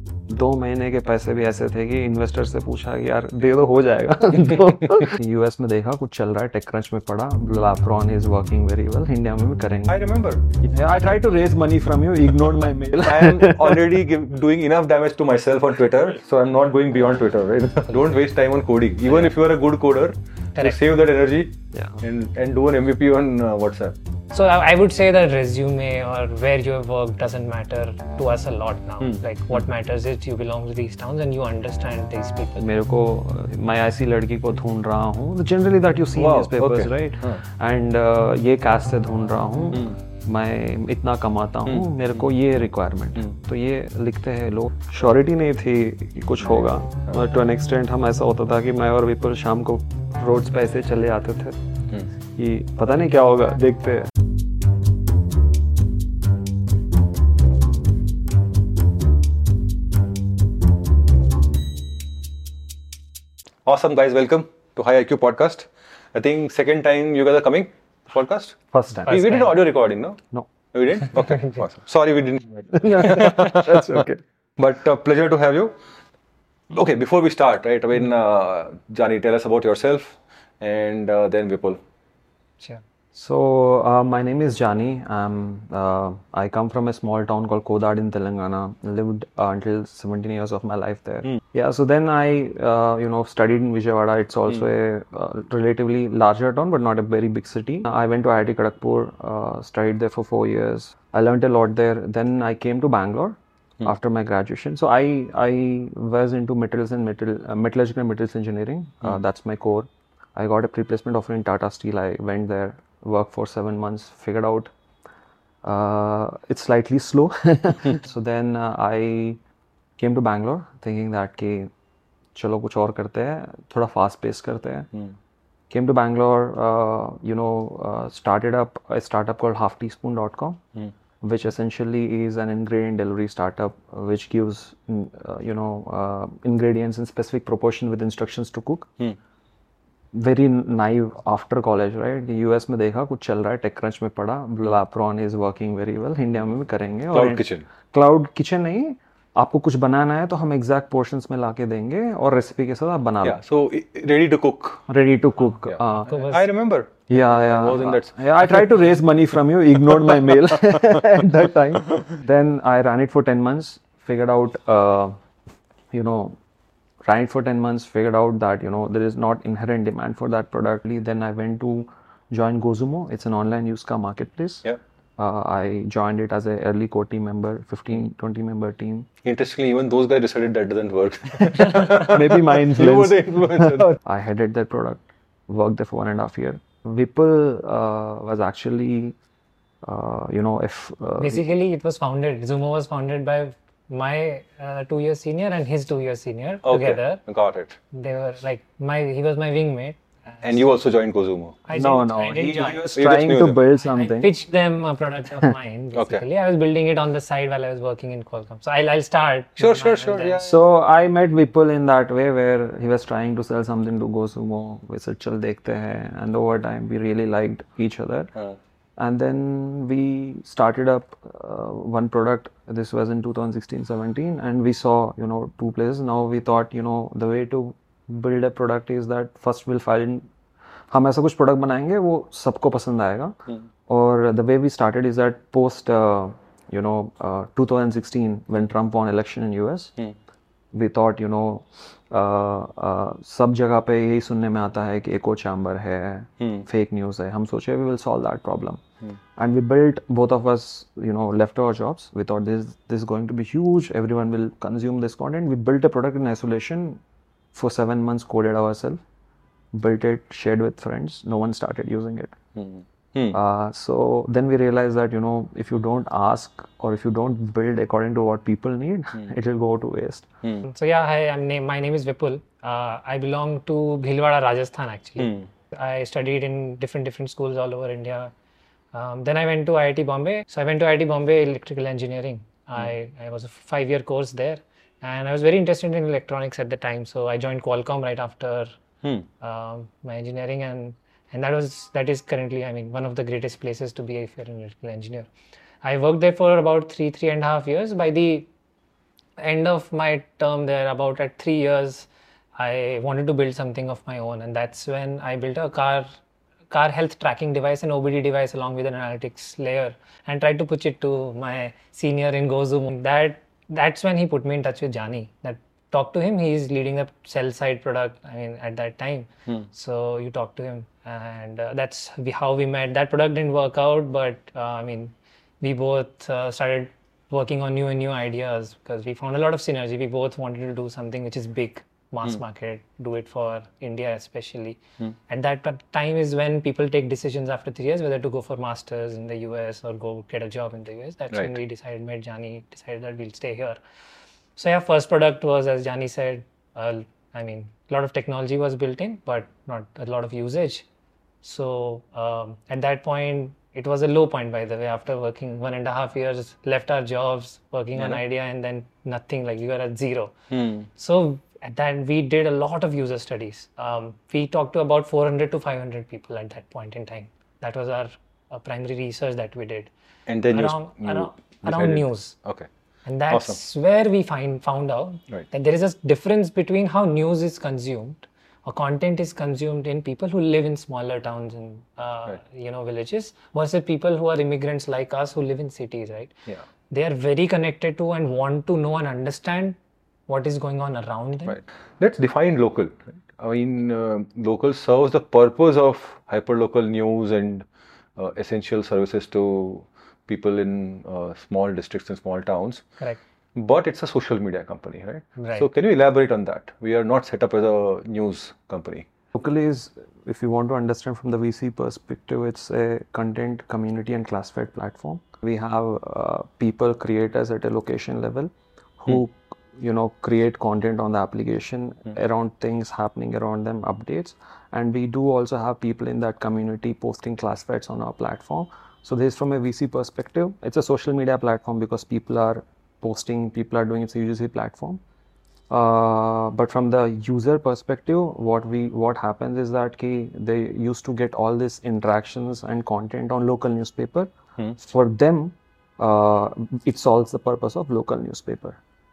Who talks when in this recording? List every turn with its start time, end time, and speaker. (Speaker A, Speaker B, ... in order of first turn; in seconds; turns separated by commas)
Speaker A: 0.3-10.0, Speaker B: 9.9-10.4, Speaker A: 10.6-13.8, Speaker B: 13.0-23.9, Speaker A: 21.7-22.0, Speaker C: 24.3-32.6, Speaker B: 29.0-29.6, Speaker A: 32.6-51.6, Speaker B: 36.1-37.4, Speaker B: 41.6-42.3, Speaker A: 52.3-54.1, Speaker B: 63.6-70.2, Speaker A: 68.7-69.5, Speaker C: 69.1-69.5, Speaker B: 70.7-74.0, Speaker C: 71.2-71.6, Speaker A: 72.7-74.2, Speaker B: 74.6-75.8, Speaker B: 76.7-81.8, Speaker A: 83.1-114.7, Speaker A: 115.6-119.4, Speaker A: 120.0-121.7, Speaker A: 122.3-124.9, Speaker A: 125.7-130.6, Speaker A: 131.2-138.9, Speaker A: 140.1-153.4, Speaker B: 147.1-147.6, Speaker B: 153.2-154.9, Speaker A: 154.9-156.3, Speaker B: 155.6-158.8, Speaker C: 156.1-156.4, Speaker A: 157.1-165.2, Speaker B: 159.8-161.3, Speaker A: 165.9-166.4, Speaker A: 167.1-179.1, Speaker B: 179.2-183.9, Speaker A: 181.4-189.2, Speaker A: 189.8-191.4, Speaker C: 191.2-197.2, Speaker B: 196.6-197.8, Speaker C: 197.9-200.6, Speaker B: 200.4-201.9, Speaker C: 201.6-202.8, Speaker A: 201.7-204.3, Speaker B: 202.4-203.6, Speaker C: 203.9-210.5, Speaker B: 205.9-206.2, Speaker B: 209.6-210.5, Speaker A: 210.4-218.3, Speaker A: 219.0-230.3, Speaker A: 230.9-239.9, Speaker A: 240.7-248.8, Speaker B: 246.4-246.7, Speaker A: 249.3-257.0, Speaker A: 257.5-259.0, Speaker A: 259.7-262.4, Speaker B: 262.5-263.4, Speaker A: 263.3-270.2, Speaker C: 270.7-278.3, Speaker B: 275.2-275.5, Speaker C: 278.9-288.7, Speaker C: 289.4-295.3, Speaker C: 295.8-298.5, Speaker C: 299.4-306.1, Speaker C: 306.7-343.8, Speaker B: 341.3-341.6, Speaker C: 344.6-350.8, Speaker C: 351.4-360.3, Speaker B: 360.5-360.9, Speaker C: 360.9-369.9, Speaker B: 370.3-372.7, Speaker C: 370.5-372.4, Speaker C: 373.1-386.4, Speaker B: 373.3-373.6, Speaker C: 386.9-389.8, Speaker C: 390.3-391.6, Speaker B: 391.4-397.6, Speaker B: 398.2-402.8, Speaker B: 403.5-409.1, Speaker C: 405.4-405.7, Speaker A: 409.3-435.0, Speaker A: 435.7-448.8